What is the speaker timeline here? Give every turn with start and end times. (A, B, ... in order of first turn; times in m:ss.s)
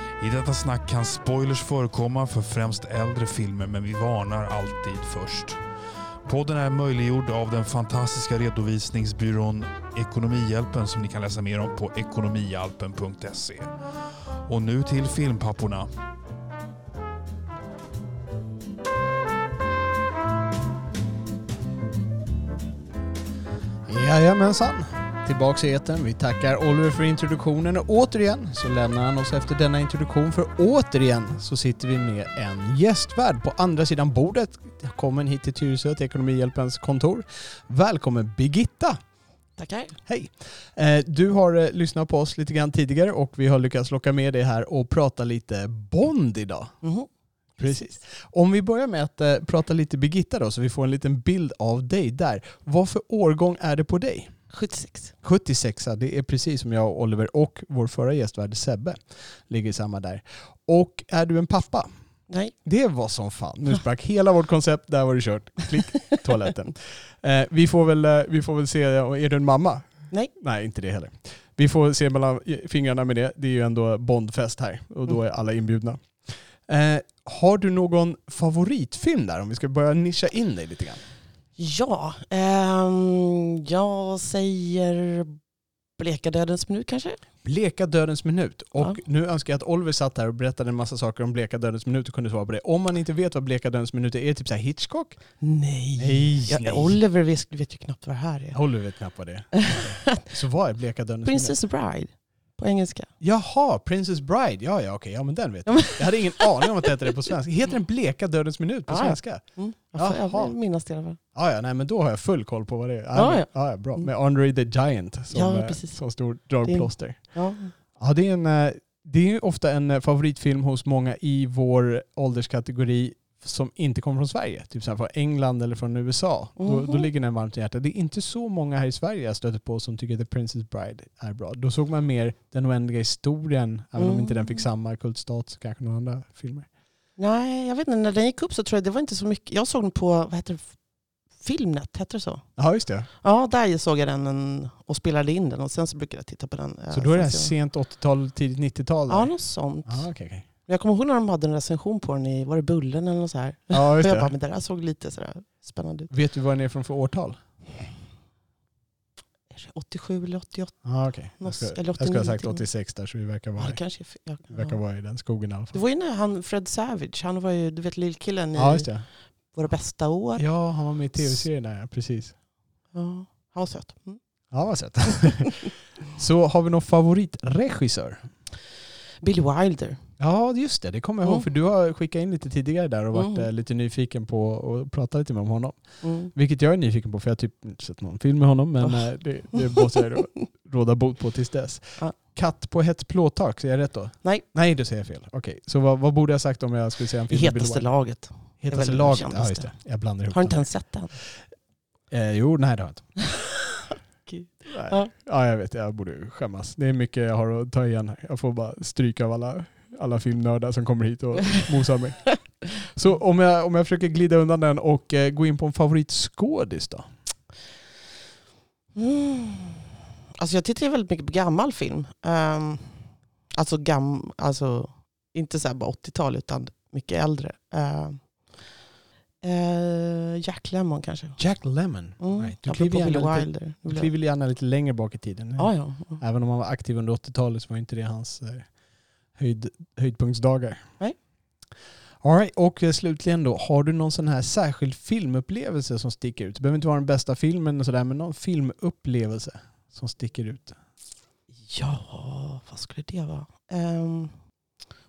0:00.2-0:05.6 A
0:06.3-0:13.7 A
0:14.4-0:15.9 A
0:23.9-0:39.0 B
0:39.6-0:40.0 C
0:40.1-0:46.7 B
0:46.8-0:47.9 C
0:47.6-0:54.4 B
0:54.5-0:55.1 C
0:55.2-1:01.9 B
1:02.3-1:02.5 C
1:02.6-1:21.0 B
1:21.6-1:25.4 C
1:26.0-1:27.2 C
1:27.4-1:35.2 B
1:35.4-1:38.6 C
1:36.0-1:37.0 B
1:38.5-1:41.6 B
1:39.6-1:40.2 C
1:41.2-1:43.1 C
1:43.2-1:50.6 B
1:45.7-1:46.4 C
1:48.9-1:51.2 C
1:51.4-1:57.4 B
1:53.2-1:54.1 C
1:55.3-1:56.0 C
1:56.6-1:57.7 C
1:58.0-2:16.7 B
2:06.6-2:07.1 C
2:14.0-2:14.5 C
2:17.2-2:20.8 C
2:21.4-2:22.5 C
2:22.6-2:23.1 B
2:23.2-2:27.5 C
2:26.9-2:29.3 B
2:29.1-2:30.1 C
2:29.9-2:30.4 B
2:30.6-2:36.1 C
2:33.7-2:34.3 B
2:36.1-2:37.4 B
2:39.5-2:40.9 C
2:40.8-2:43.8 B
2:41.4-2:42.6 C
2:43.6-2:44.8 C
2:44.5-2:45.8 B
2:45.7-2:50.4 C
2:48.6-2:49.1 B
2:50.4-2:52.4 B
2:52.9-2:54.2 C
2:54.5-2:58.3 B
2:59.2-3:00.0 C
3:00.2-3:17.8 B
3:03.1-3:03.5 C
3:06.0-3:06.3 C
3:08.8-3:10.1 C
3:17.3-3:21.1 C
3:18.6-3:20.7 B
3:22.1-3:23.1 B
3:23.9-3:25.1 C
3:24.7-3:37.1 B
3:39.0-3:39.8 C
3:40.4-3:48.7 C
3:49.4-3:51.4 C
3:51.4-3:58.7 B
3:52.2-3:54.1 C
3:55.6-3:56.2 C
3:59.4-4:00.8 B
4:02.2-4:10.8 B
4:11.7-4:14.4 C